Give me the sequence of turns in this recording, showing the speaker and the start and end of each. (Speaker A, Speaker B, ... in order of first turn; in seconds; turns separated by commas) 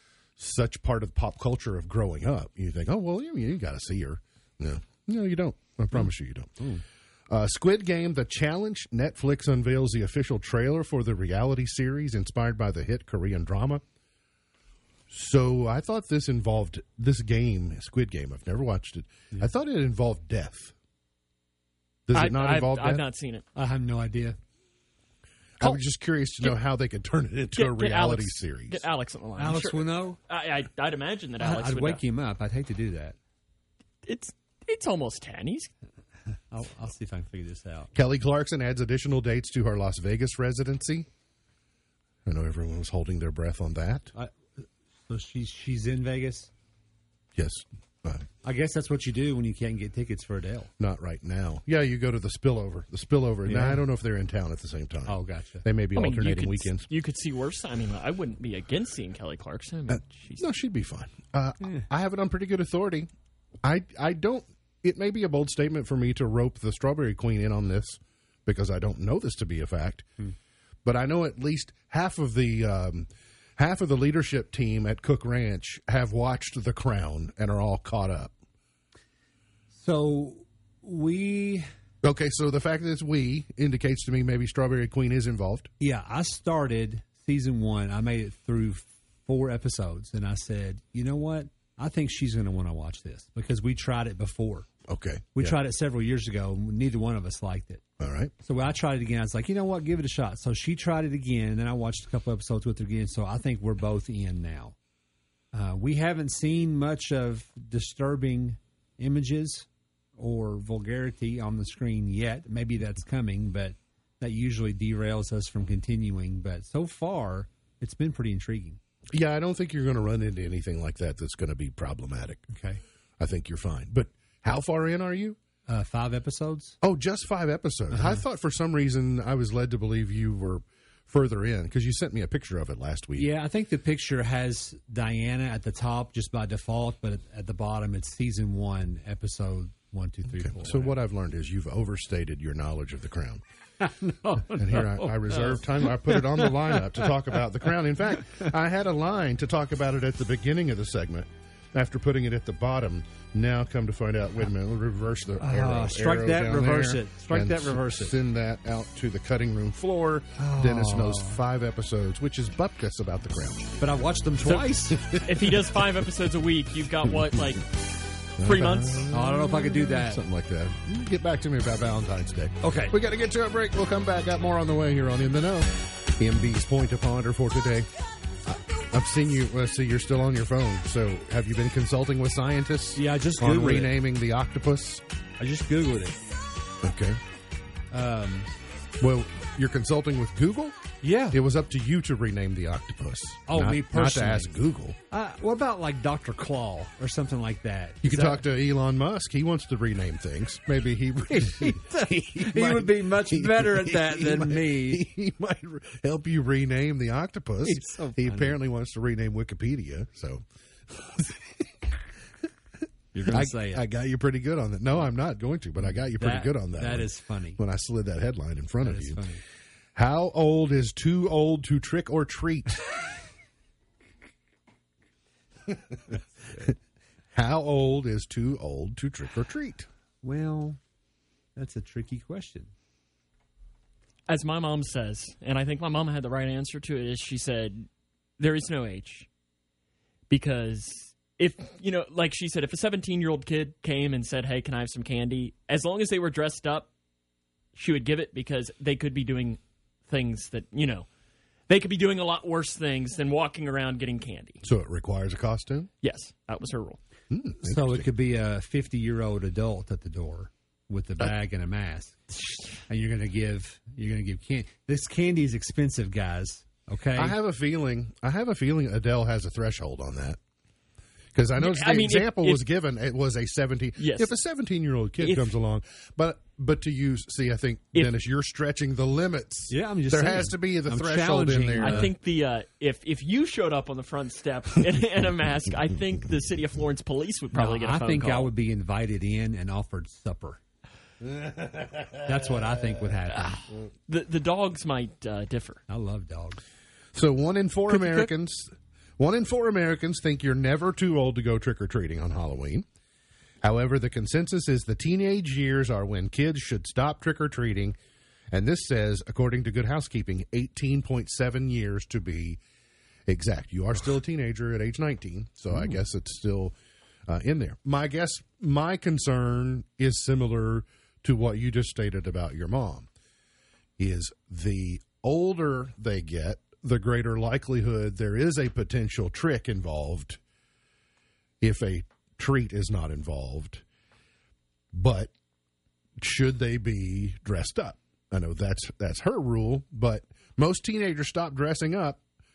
Speaker A: 0.4-6.6, Speaker A: 7.3-13.8, Speaker A: 15.1-20.7, Speaker A: 22.1-23.0, Speaker B: 22.1-23.4, Speaker C: 23.6-24.4, Speaker A: 25.6-28.9, Speaker B: 27.6-32.0, Speaker C: 29.4-30.2, Speaker C: 31.4-33.2, Speaker B: 34.1-35.7, Speaker C: 36.3-37.9, Speaker A: 38.0-41.1, Speaker A: 42.3-44.1, Speaker C: 44.1-46.5, Speaker A: 47.4-48.3, Speaker C: 48.4-50.7, Speaker A: 50.8-56.9, Speaker C: 53.5-53.8, Speaker C: 55.1-55.6, Speaker B: 56.0-60.5, Speaker A: 59.9-63.1, Speaker A: 63.6-70.1, Speaker A: 70.8-78.3, Speaker C: 79.7-81.7, Speaker A: 82.0-85.7, Speaker C: 85.8-94.7, Speaker A: 94.9-95.6, Speaker C: 95.3-97.8, Speaker A: 98.0-98.3, Speaker C: 98.4-104.8, Speaker C: 105.5-118.8, Speaker A: 119.1-122.5, Speaker C: 122.5-122.8, Speaker A: 123.2-125.4, Speaker C: 125.7-126.8, Speaker A: 126.8-133.3, Speaker C: 127.9-128.2, Speaker C: 133.2-141.0, Speaker A: 140.4-143.4, Speaker C: 143.8-147.1, Speaker A: 144.5-163.8, Speaker C: 155.4-158.1, Speaker C: 160.4-161.4, Speaker C: 163.8-165.0, Speaker B: 164.4-167.8, Speaker A: 164.9-165.8, Speaker A: 168.4-177.9, Speaker B: 168.4-169.1, Speaker C: 169.1-170.2, Speaker C: 172.6-173.0, Speaker A: 178.4-185.0, Speaker C: 182.9-183.9, Speaker C: 185.4-186.2, Speaker A: 186.8-187.2, Speaker C: 187.9-188.5, Speaker A: 189.0-190.8, Speaker C: 191.0-191.4, Speaker A: 191.3-194.9, Speaker C: 193.5-194.5, Speaker C: 195.1-198.4, Speaker A: 198.0-211.7, Speaker C: 201.3-205.1, Speaker C: 207.6-208.6, Speaker C: 213.1-213.8, Speaker A: 213.3-219.2, Speaker C: 215.9-217.6, Speaker C: 218.8-219.4, Speaker A: 219.9-223.1, Speaker A: 227.3-229.9, Speaker C: 230.2-230.8, Speaker C: 231.6-232.7, Speaker B: 234.3-237.9, Speaker B: 238.4-239.3, Speaker B: 240.3-246.9, Speaker B: 247.8-251.1, Speaker B: 251.7-254.6, Speaker A: 254.6-255.9, Speaker B: 256.0-257.0, Speaker A: 257.3-258.1, Speaker C: 257.6-267.4, Speaker A: 267.1-270.4, Speaker A: 271.3-282.1, Speaker B: 271.6-272.6, Speaker B: 274.0-274.3, Speaker B: 275.2-275.5, Speaker C: 279.7-282.1, Speaker B: 281.8-288.5, Speaker C: 287.5-290.6, Speaker A: 291.4-292.1, Speaker C: 292.2-293.6, Speaker B: 293.3-295.8, Speaker C: 295.9-296.6, Speaker A: 297.1-302.9, Speaker B: 297.9-298.3, Speaker A: 303.6-307.9, Speaker A: 308.5-312.6, Speaker A: 313.3-316.8, Speaker A: 317.3-323.1, Speaker A: 324.0-330.4, Speaker A: 331.6-333.8, Speaker A: 334.9-335.3, Speaker A: 336.2-342.2